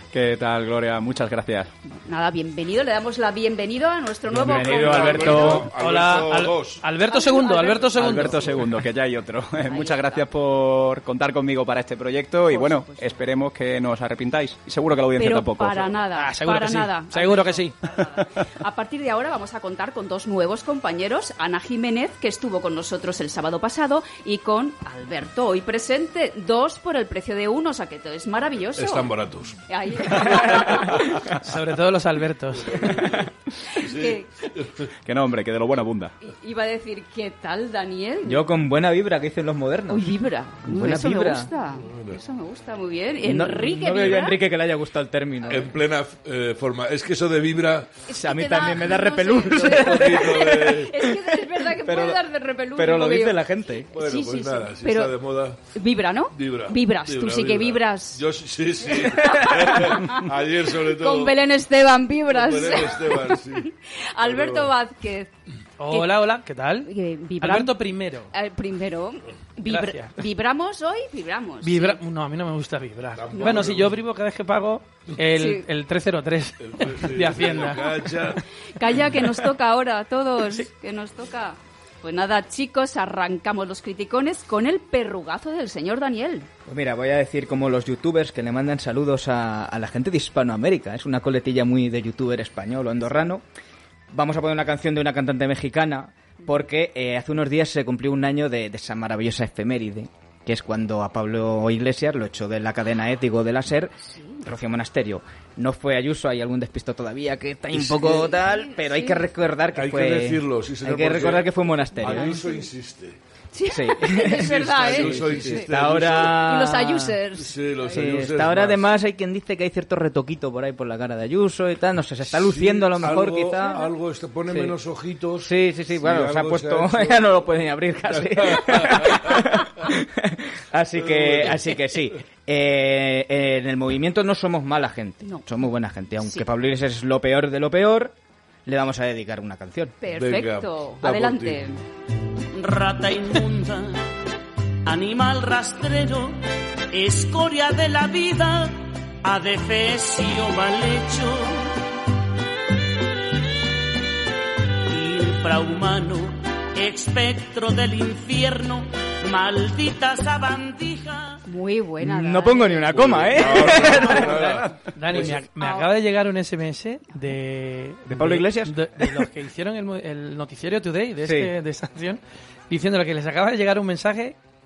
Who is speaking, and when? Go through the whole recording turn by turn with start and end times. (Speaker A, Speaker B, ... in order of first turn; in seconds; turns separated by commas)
Speaker A: 0.1-1.7, Speaker B: 2.0-5.6, Speaker C: 4.3-5.7, Speaker D: 4.3-6.8, Speaker E: 5.1-8.8, Speaker B: 7.1-8.5, Speaker A: 8.0-16.0, Speaker B: 9.6-10.3, Speaker B: 12.5-13.1, Speaker B: 15.2-29.1, Speaker E: 16.1-17.7, Speaker D: 28.8-29.6, Speaker B: 29.7-31.3, Speaker E: 31.1-32.9, Speaker D: 32.8-33.2, Speaker B: 33.7-34.4, Speaker D: 33.8-34.9, Speaker A: 35.0-36.1, Speaker B: 36.2-38.5, Speaker C: 38.2-40.1, Speaker B: 39.9-44.4, Speaker C: 40.6-41.5, Speaker D: 41.9-42.2, Speaker C: 43.2-45.7, Speaker D: 45.5-47.9, Speaker B: 48.1-53.4, Speaker C: 48.1-52.2, Speaker D: 49.7-50.9, Speaker C: 52.8-53.9, Speaker D: 53.9-55.6, Speaker B: 53.9-55.1, Speaker B: 55.7-58.2, Speaker D: 56.3-61.4, Speaker B: 58.9-65.3, Speaker D: 62.3-63.7, Speaker D: 64.2-64.7, Speaker E: 65.8-68.3, Speaker B: 65.9-66.1, Speaker B: 66.8-67.8, Speaker B: 68.3-72.0, Speaker E: 69.7-70.2, Speaker E: 71.6-77.9, Speaker D: 73.2-74.0, Speaker B: 75.4-75.7, Speaker D: 76.6-78.4, Speaker B: 78.8-86.5, Speaker C: 86.7-93.4, Speaker C: 94.1-112.4, Speaker B: 104.0-104.5, Speaker D: 107.7-108.4, Speaker B: 108.4-109.2, Speaker D: 109.7-113.2, Speaker B: 112.0-112.7, Speaker B: 113.5-118.0, Speaker C: 113.7-117.2, Speaker D: 114.4-116.5, Speaker D: 117.3-118.9, Speaker C: 117.9-123.8, Speaker D: 122.2-127.5, Speaker C: 124.5-124.8, Speaker C: 125.5-138.2, Speaker D: 128.0-129.4, Speaker D: 131.0-131.6, Speaker B: 135.2-135.5, Speaker B: 136.2-136.5, Speaker C: 138.7-139.9, Speaker B: 140.0-141.8, Speaker D: 140.2-141.6, Speaker F: 142.5-143.9, Speaker F: 144.9-146.3, Speaker F: 146.9-151.6, Speaker F: 154.9-161.3, Speaker B: 161.5-163.7, Speaker C: 162.0-164.7, Speaker D: 162.9-165.4, Speaker E: 163.8-164.4, Speaker E: 164.9-174.4, Speaker B: 165.6-165.9, Speaker C: 168.1-169.2, Speaker C: 171.2-171.5